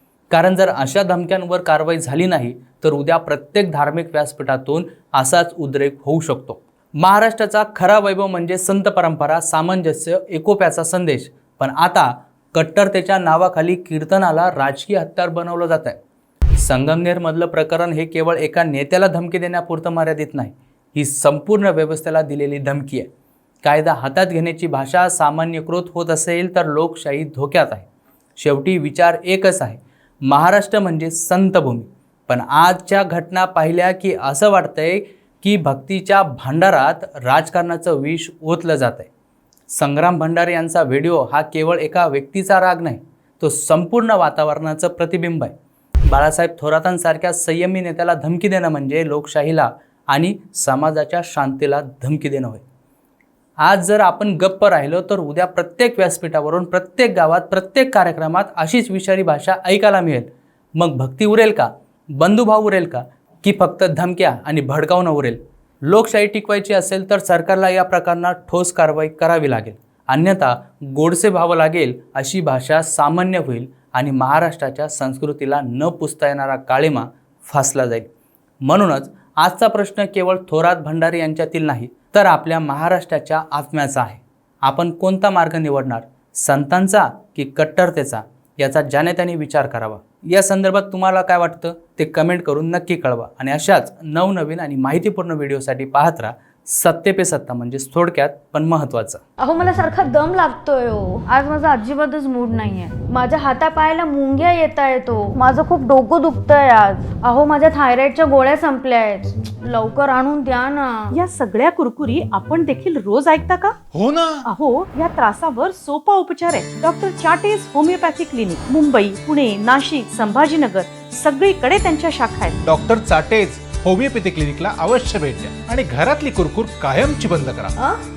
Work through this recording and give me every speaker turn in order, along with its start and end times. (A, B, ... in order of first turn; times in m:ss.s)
0:00.3-0:16.0 A
0:16.6-0:23.1 A
0:23.6-0:27.9 A
0:28.4-0:39.1 A
0:39.7-0:45.5 A
0:46.1-0:52.6 A
0:53.6-1:18.1 A
1:18.6-1:39.2 A
1:39.4-1:51.2 B
1:51.1-1:53.8 C
1:53.9-1:54.5 D
1:54.5-2:02.6 C
2:02.6-2:07.8 D